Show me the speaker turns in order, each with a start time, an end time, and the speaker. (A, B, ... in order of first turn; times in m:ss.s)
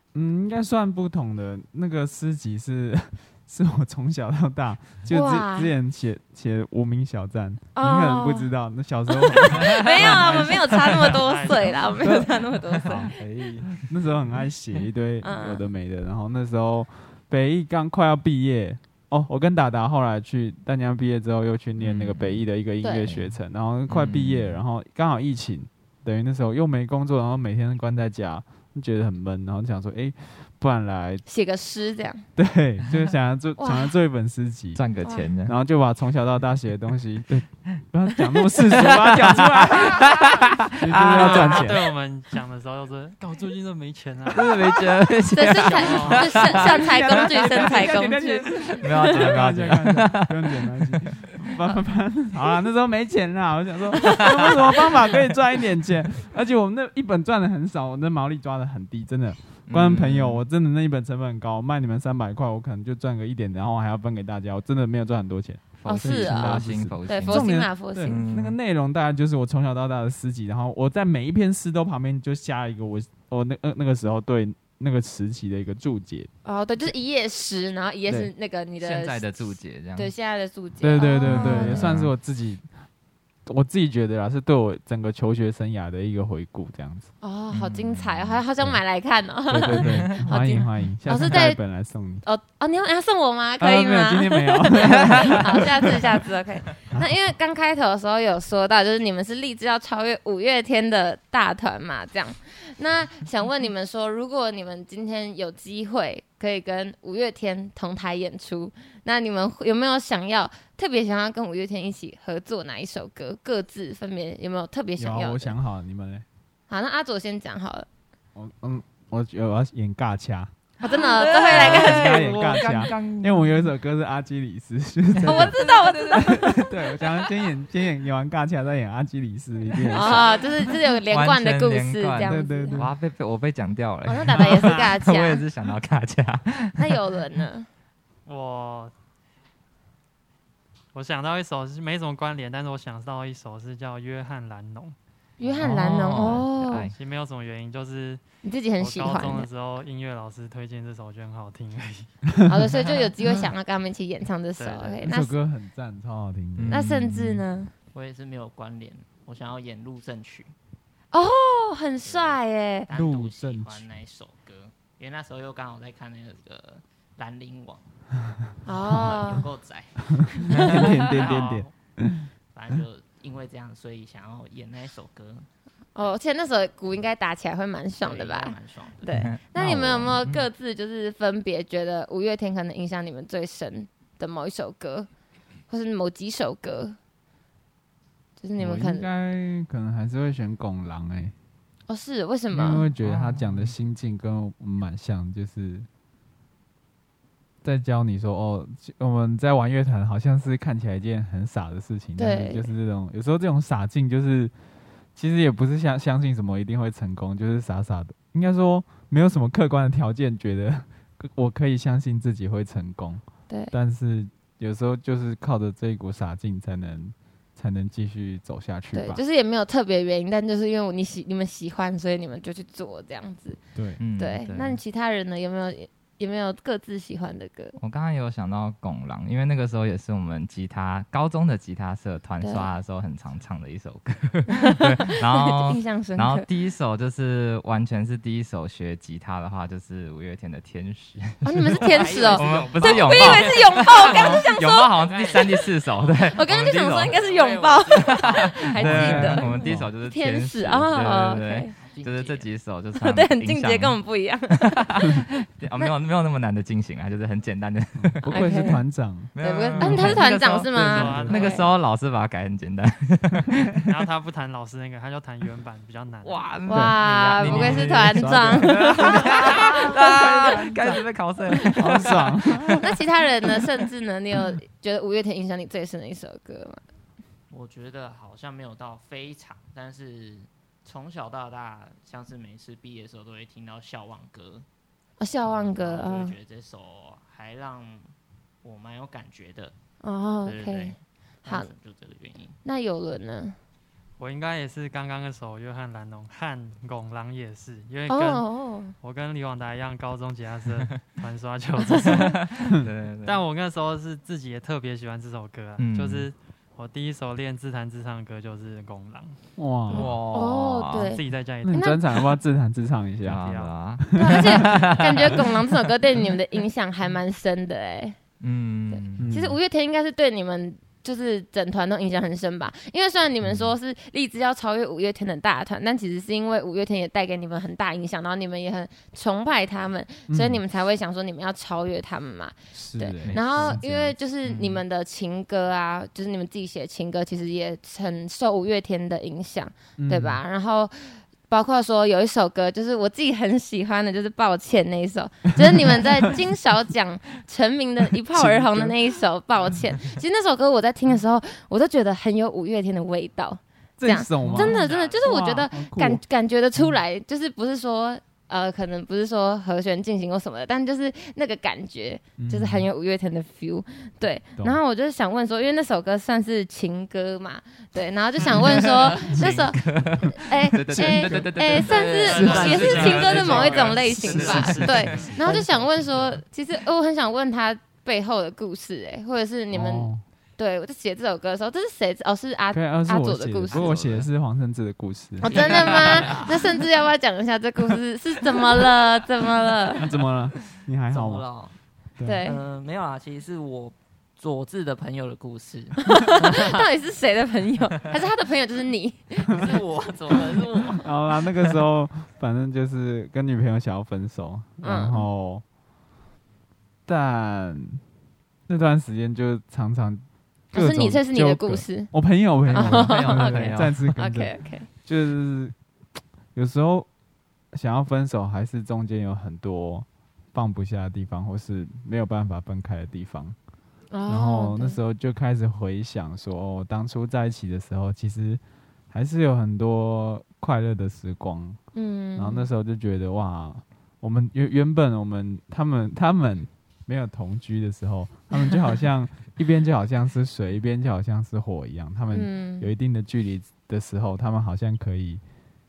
0:00.1-0:11.2 A
0:05.1-0:05.7 B
0:07.7-0:08.5 B
0:09.1-0:13.1 B
0:09.6-0:10.2 C
0:10.8-0:12.0 D
0:12.0-0:13.1 A
0:12.8-0:13.8 C
0:13.7-0:31.2 A
0:15.2-0:15.6 B
0:21.8-0:22.4 C
0:22.8-0:23.1 B
0:23.9-0:24.6 C
0:31.2-0:32.2 B
0:32.4-0:34.8 A
0:33.6-0:33.9 B
0:34.7-0:35.5 C
0:35.0-0:35.3 B
0:35.4-0:40.2 A
0:38.7-0:41.6 C
0:40.8-0:41.9 A
0:41.0-0:44.7 D
0:44.3-0:47.7 C
0:45.3-0:49.2 B
0:45.6-0:46.6 D
0:46.5-1:16.3 A
0:48.8-0:51.0 C
0:59.7-1:00.4 C
1:05.8-1:07.5 C
1:05.8-1:08.2 B
1:08.1-1:08.6 C
1:16.4-1:21.9 B
1:18.8-1:20.1 C
1:20.8-1:22.6 A
1:21.2-1:22.1 C
1:23.4-1:27.1 A
1:27.2-1:31.6 B
1:27.5-1:28.4 C
1:29.5-1:32.2 A
1:29.7-1:30.2 C
1:32.2-1:55.5 B
1:33.6-1:36.0 A
1:36.9-1:37.2 A
1:55.0-1:56.2 A
1:56.7-1:57.9 B
1:58.3-2:00.5 A
2:00.8-2:02.1 B
2:00.9-2:03.7 C
2:01.4-2:05.6 A
2:05.2-2:07.2 C
2:05.2-2:06.6 B
2:06.1-2:10.3 A
2:09.9-2:10.2 C
2:09.9-2:12.8 B
2:11.0-2:16.9 C
2:12.2-2:12.9 A
2:14.0-2:15.4 B
2:14.4-2:14.6 A
2:16.8-2:17.7 B
2:18.2-2:18.9 D
2:20.9-2:25.8 D
2:25.4-2:26.9 B
2:25.6-2:26.9 C
2:26.9-2:28.2 D
2:28.4-2:29.5 B
2:28.8-2:32.1 D
2:32.5-2:35.3 B
2:34.6-2:35.0 D
2:35.0-2:37.4 A
2:36.6-2:36.9 C
2:36.7-2:37.7 B
2:37.9-2:40.5 E
2:41.1-2:42.9 B
2:42.0-2:47.8 E
2:42.9-2:43.9 A
2:48.6-2:49.5 B
2:48.8-2:51.7 E
2:50.2-2:52.2 A
2:52.5-2:55.5 E
2:55.9-3:05.1 B
2:58.0-2:59.0 E
2:59.1-3:00.4 C
3:05.7-3:07.0 B
3:08.4-3:09.0 B
3:08.6-3:11.3 A
3:11.9-3:12.8 B
3:12.5-3:15.9 A
3:13.0-3:13.7 C
3:17.6-3:24.5 A
3:22.2-3:22.7 B
3:25.1-3:39.2 A
3:38.9-3:43.6 B
3:43.7-3:44.0 A
3:44.0-3:44.8 C
3:44.2-3:47.8 B
3:47.8-4:07.2 C
3:52.4-3:52.7 B
3:54.5-3:56.4 B
4:01.4-4:04.9 B
4:01.8-4:06.3 E
4:06.2-4:11.7 B
4:07.0-4:08.6 E
4:08.0-4:14.0 C
4:08.8-4:09.9 A
4:11.8-4:12.5 E
4:13.0-4:15.2 B
4:14.5-4:18.6 C
4:18.0-4:20.2 A
4:18.2-4:18.8 B
4:19.3-4:23.7 C
4:19.4-4:21.7 B
4:20.6-4:21.6 D
4:20.8-4:21.4 A
4:23.9-4:26.4 D
4:26.2-4:32.8 C
4:26.7-4:30.2 B
4:26.7-4:31.0 A
4:27.4-4:28.1 D
4:31.7-4:32.8 A
4:32.8-4:36.8 B
4:37.5-4:44.6 E
4:45.2-4:46.4 B
4:45.5-4:49.7 E
4:50.0-4:51.7 B
4:50.4-4:52.6 E
4:52.6-4:53.6 B
4:54.2-4:58.5 D
4:58.1-4:58.9 B
4:59.0-5:02.4 D
5:02.0-5:03.4 C
5:03.2-5:09.4 D
5:05.8-5:06.3 C
5:09.6-5:10.1 A
5:09.9-5:11.1 C
5:10.0-5:12.0 B
5:11.0-5:11.9 D
5:11.6-5:13.5 A
5:13.2-5:15.4 C
5:13.3-5:13.7 D
5:14.2-5:18.2 B
5:18.4-5:19.3 C
5:18.9-6:23.9 B
5:19.2-5:19.6 A
5:30.3-5:30.6 A
5:32.7-5:34.1 A
5:33.2-5:33.8 C
5:34.4-5:34.8 C
5:40.0-5:40.4 A
5:45.6-5:46.3 A
5:48.2-5:49.1 A
5:54.0-5:56.2 A
5:54.4-5:55.3 E
6:02.4-6:02.9 A
6:08.5-6:15.0 C
6:10.7-6:15.7 A
6:12.2-6:15.4 D
6:12.3-6:15.5 E
6:19.7-6:20.2 A
6:22.7-6:25.6 A
6:24.0-6:24.2 C
6:25.4-6:30.1 B
6:25.5-6:26.8 E
6:30.0-6:31.4 A
6:31.1-6:31.8 E
6:32.2-6:32.6 B
6:32.4-6:36.8 E
6:36.1-6:39.6 B
6:39.5-6:41.0 E
6:41.0-6:45.6 A
6:44.8-6:45.3 B
6:47.0-6:48.0 A
6:48.7-6:55.7 A
6:50.7-6:52.1 B
6:52.7-6:54.1 C
6:52.7-6:54.9 B
6:56.5-6:57.1 A
6:57.7-7:03.6 A
7:04.1-7:05.0 B
7:04.3-7:11.8 A
7:11.9-7:12.7 B
7:12.4-7:25.4 A
7:22.3-7:22.9 B